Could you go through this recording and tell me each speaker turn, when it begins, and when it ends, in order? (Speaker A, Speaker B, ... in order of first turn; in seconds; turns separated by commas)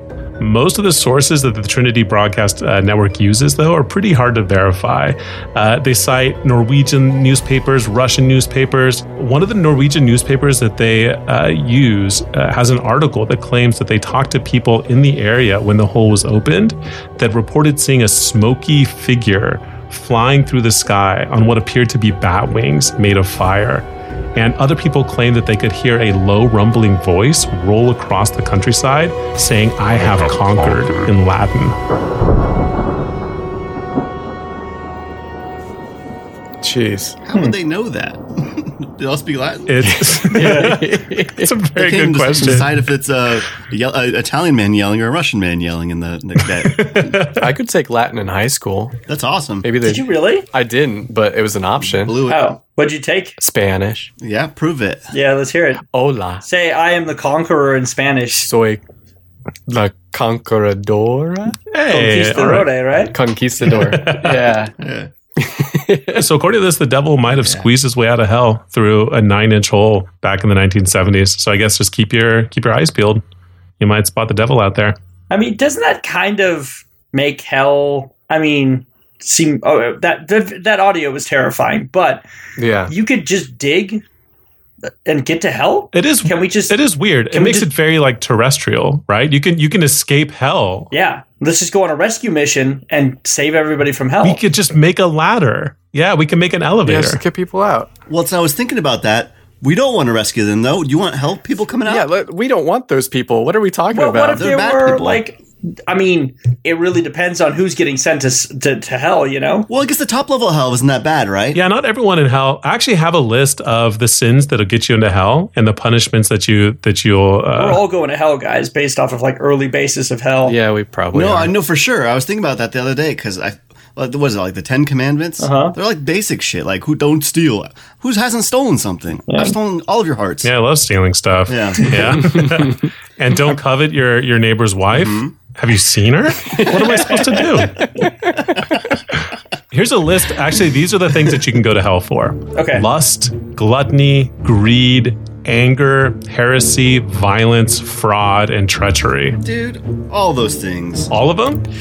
Speaker A: 0.4-31.8, Speaker B: 36.6-37.2, Speaker C: 37.2-39.9, Speaker A: 39.7-42.8, Speaker B: 39.8-41.5, Speaker D: 40.4-40.7, Speaker C: 41.8-47.2, Speaker A: 46.6-47.5, Speaker B: 47.3-49.0, Speaker C: 49.1-49.7, Speaker B: 49.6-52.2, Speaker D: 49.8-50.5, Speaker C: 51.8-52.5, Speaker D: 52.2-53.4, Speaker B: 53.4-54.1, Speaker C: 54.2-55.1, Speaker D: 55.1-55.9, Speaker B: 55.9-56.5, Speaker D: 56.5-58.5, Speaker B: 58.4-58.8, Speaker B: 59.7-61.6, Speaker A: 61.7-62.7, Speaker D: 61.9-63.1, Speaker B: 63.1-64.8, Speaker A: 63.6-64.5, Speaker C: 64.8-65.1, Speaker B: 65.4-66.2, Speaker A: 66.1-73.2, Speaker C: 67.3-67.7, Speaker A: 73.8-75.0, Speaker D: 75.3-82.2, Speaker B: 82.6-82.9, Speaker D: 82.9-84.0, Speaker D: 85.0-86.8, Speaker A: 85.9-90.9, Speaker D: 87.3-87.7, Speaker D: 90.9-94.4, Speaker A: 94.2-97.2, Speaker B: 96.8-97.9, Speaker C: 98.1-102.1, Speaker B: 101.8-104.4, Speaker D: 103.9-109.7, Speaker C: 104.3-105.2, Speaker C: 109.7-111.6, Speaker A: 111.5-117.8, Speaker D: 117.6-120.6, Speaker B: 120.4-121.5, Speaker C: 121.1-130.5, Speaker D: 125.4-125.8, Speaker D: 129.3-129.6, Speaker A: 130.4-137.9, Speaker C: 131.5-132.4, Speaker B: 132.3-132.7, Speaker C: 134.9-135.3, Speaker B: 136.4-138.7, Speaker D: 136.9-137.4, Speaker A: 139.7-149.4, Speaker D: 142.6-142.9, Speaker C: 149.4-151.1, Speaker A: 151.1-151.6